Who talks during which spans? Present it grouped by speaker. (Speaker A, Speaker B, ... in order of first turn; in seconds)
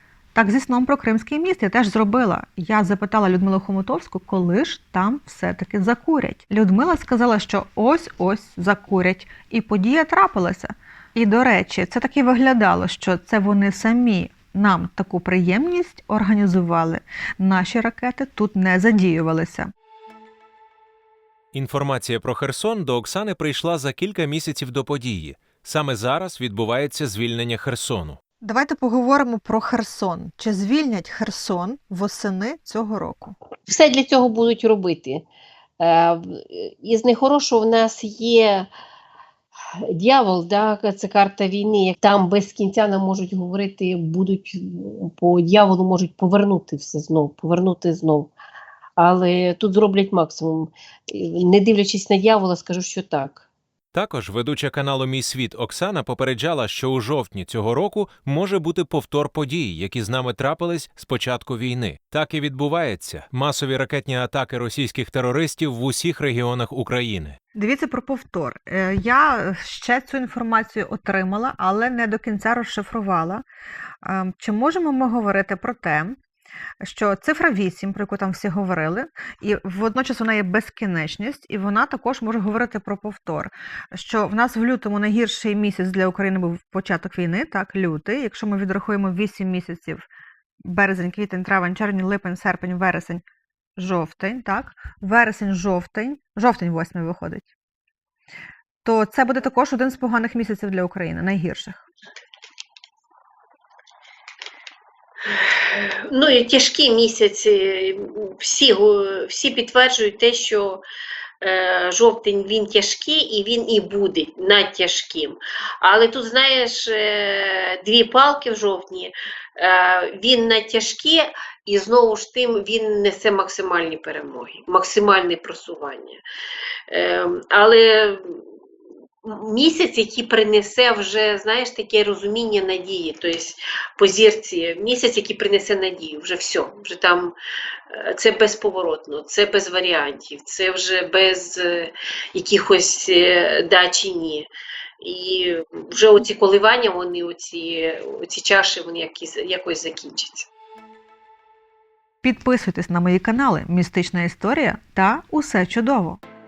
Speaker A: 0.3-19.7, 28.4-33.4, 67.5-73.4, 74.0-76.2, 76.8-90.1, 90.6-93.2, 93.8-97.5, 98.8-101.8, 152.2-156.2
Speaker B: 21.5-28.2, 53.9-67.4
Speaker C: 33.7-35.2, 35.8-38.7, 39.9-48.3, 49.0-53.5, 105.3-110.8, 111.4-126.2, 126.9-128.4, 129.2-137.4, 137.9-144.5, 145.0-150.5